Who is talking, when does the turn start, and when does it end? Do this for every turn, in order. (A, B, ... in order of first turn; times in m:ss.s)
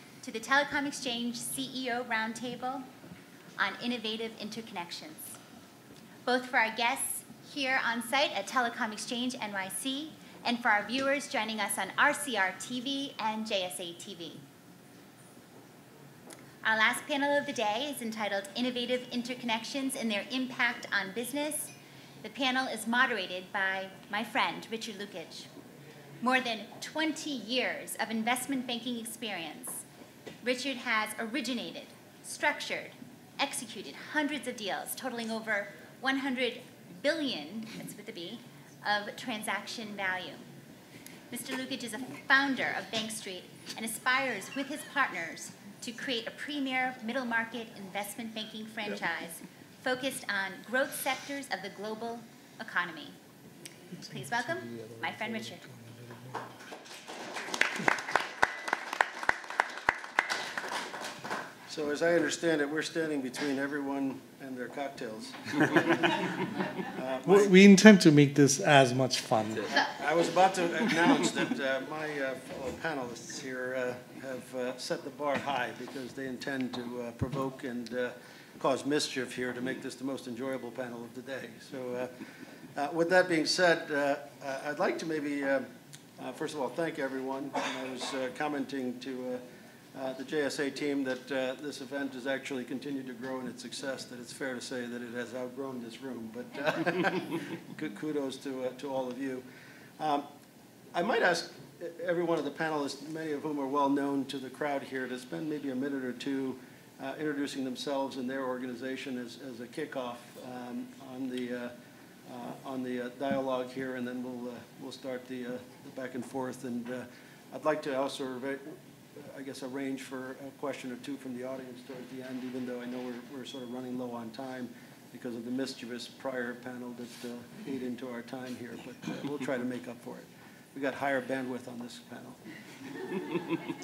0:00.2-0:02.9 A
0:03.6-0:05.4 A
0:06.2-0:14.4 A
0:16.6-0:25.5 A
0:26.2-0:29.8 A
0:30.4-0:40.4 A
0:41.3-0:53.2 A
0:53.9-0:56.6 B
0:54.1-0:55.6 A
1:01.7-1:07.5 C
1:07.2-1:09.7 B
1:09.8-1:22.2 C
1:22.7-1:29.4 C
1:29.9-1:39.4 C
1:40.0-1:40.3 C
1:40.9-1:51.7 C
1:52.3-2:12.4 C